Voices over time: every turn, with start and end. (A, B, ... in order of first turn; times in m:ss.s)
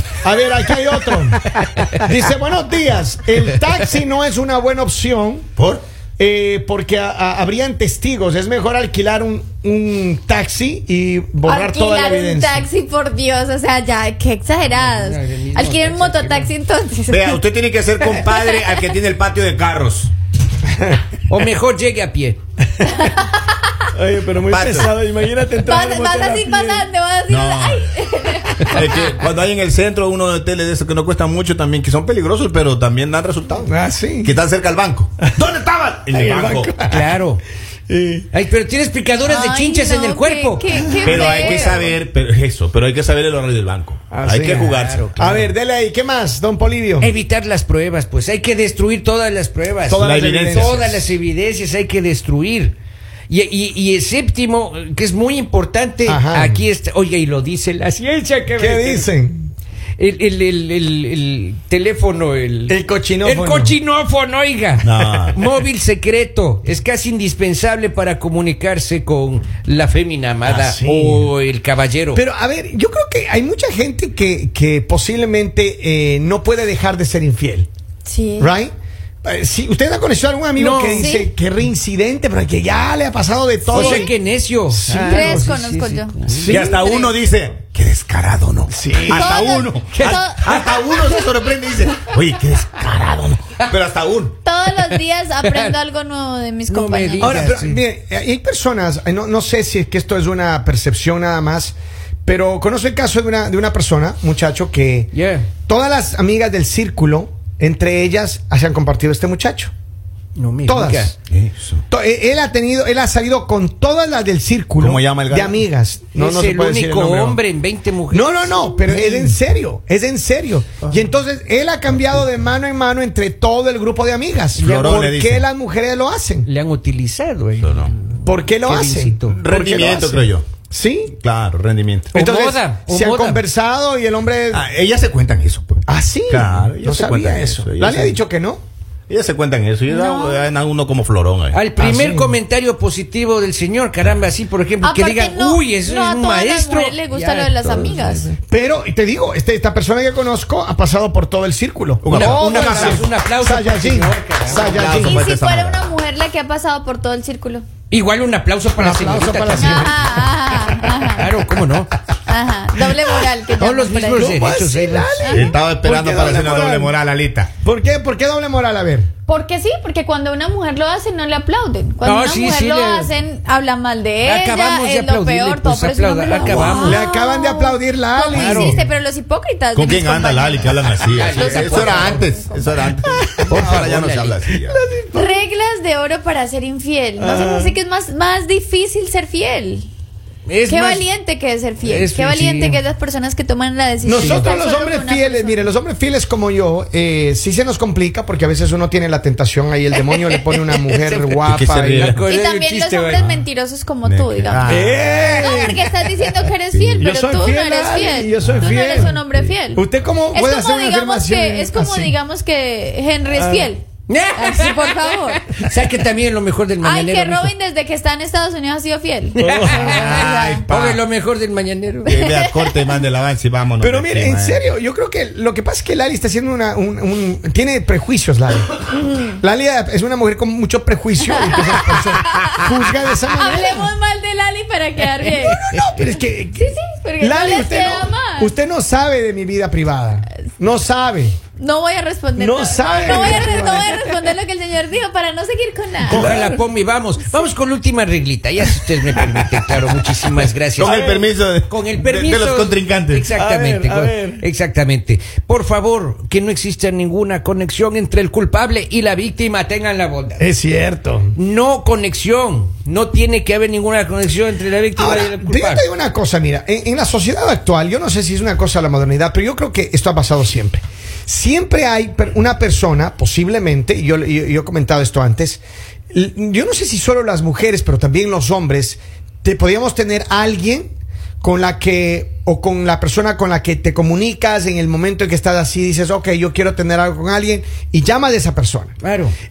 0:00.2-0:05.5 A
0:01.4-0:02.0 B
0:05.6-0:05.8 C
0:06.2-0:12.7 A
0:11.4-0:17.4 D
0:14.7-0:16.5 B
0:17.1-0:20.1 C
0:18.2-0:18.9 D
0:21.3-0:22.4 B
0:22.8-0:23.7 D
0:23.9-0:26.9 A
0:24.4-0:24.9 C
0:25.6-0:29.0 D
0:27.3-0:28.0 C
0:28.7-0:33.7 C
0:33.7-0:34.3 A
0:34.2-0:36.7 C
0:36.1-0:37.2 A
0:36.9-0:37.4 B
0:37.9-0:38.3 A
0:38.3-0:41.8 B
0:39.2-0:42.0 D
0:41.0-0:45.1 C
0:44.1-0:47.1 A
0:44.2-0:45.5 B
0:47.0-0:52.8 B
0:49.9-0:50.8 A
0:50.0-0:51.0 C
0:53.3-0:59.1 B
0:56.0-0:56.6 A
0:58.5-0:59.5 A
1:00.0-1:12.2 B
1:02.7-1:03.8 A
1:04.8-1:05.4 C
1:10.4-1:11.3 A
1:12.2-1:17.7 A
1:18.0-1:18.6 D
1:18.4-1:18.7 A
1:19.2-1:24.1 A
1:20.6-1:21.1 B
1:21.0-1:21.3 D
1:23.7-1:26.7 B
1:24.7-1:25.5 A
1:24.9-1:27.2 D
1:26.3-1:26.8 A
1:26.4-1:34.4 C
1:28.7-1:29.6 A
1:29.1-1:31.3 D
1:29.9-1:30.5 B
1:34.4-1:37.4 D
1:34.7-1:35.7 B
1:36.7-1:37.8 B
1:37.2-1:45.1 A
1:45.1-1:45.5 B
1:45.7-1:49.7 A
1:50.4-1:51.1 B
1:50.7-1:51.1 A
1:51.3-1:51.8 C
1:51.9-1:57.4 A
1:54.8-1:55.6 C
1:56.2-1:59.3 B
1:58.1-2:06.5 A
2:04.6-2:05.5 C
2:06.4-2:09.4 B
2:07.6-2:07.9 C
2:08.2-2:11.1 A
2:09.3-2:10.5 C
2:11.2-2:12.2 C
2:12.1-2:14.6 A
2:12.1-2:13.4 B
2:14.5-2:18.2 C
2:15.9-2:18.6 A
2:19.1-2:21.6 C
2:19.9-2:20.5 D
2:21.5-2:28.4 B
2:21.8-2:22.4 A
2:24.8-2:28.3 D
2:28.5-2:35.3 A
2:32.0-2:33.1 C
2:32.1-2:35.2 B
2:34.6-2:36.0 C
2:35.0-2:37.6 D
2:37.9-2:40.0 B
2:38.8-2:40.2 A
2:39.6-2:41.3 D
2:41.2-2:41.9 B
2:42.3-2:44.3 D
2:43.6-2:45.2 B
2:44.1-2:47.0 A
2:45.2-2:45.5 D
2:45.3-2:47.5 C
2:47.6-2:49.1 A
2:49.3-3:03.2 D
2:52.0-2:53.1 B
2:54.2-2:57.0 B
2:56.5-2:58.9 A
2:58.3-2:58.8 B
2:59.7-3:04.8 C
3:01.1-3:02.3 B
3:03.4-3:04.4 B
3:03.5-3:03.8 A
3:04.7-3:05.4 A
3:05.1-3:09.9 D
3:07.2-3:07.8 A
3:10.5-3:11.0 B
3:10.7-3:15.6 D
3:11.8-3:12.8 B
3:14.0-3:22.2 A
3:14.2-3:14.5 B
3:20.0-3:23.2 B
3:21.4-3:22.2 C
3:22.2-3:33.8 D
3:23.1-3:23.4 C
3:24.0-3:25.2 C
3:24.6-3:26.2 A
3:26.7-3:27.1 C
3:27.0-3:29.2 A
3:28.4-3:29.5 C
3:29.8-3:32.2 A
3:33.3-3:33.7 A
3:34.1-3:37.5 B
3:34.3-3:35.4 D
3:36.8-3:40.7 D
3:39.4-3:40.2 A
3:39.4-3:42.2 B
3:39.8-3:41.0 C
3:42.1-3:42.9 D
3:42.1-3:44.6 C
3:43.8-3:54.0 A
3:48.9-3:49.4 D
3:51.3-3:52.6 D
3:53.3-3:55.7 D
3:55.3-4:01.4 A
3:55.4-3:55.9 B
3:56.6-3:58.5 D
4:01.6-4:06.3 D
4:02.4-4:04.2 A
4:06.1-4:06.4 C
4:06.1-4:06.6 A
4:06.1-4:11.0 B
4:10.8-4:13.3 C
4:10.8-4:11.3 A
4:11.7-4:20.5 B
4:13.4-4:14.4 A
4:20.4-4:21.4 A
4:21.4-4:25.8 B
4:25.0-4:49.0 A
4:49.0-4:49.3 B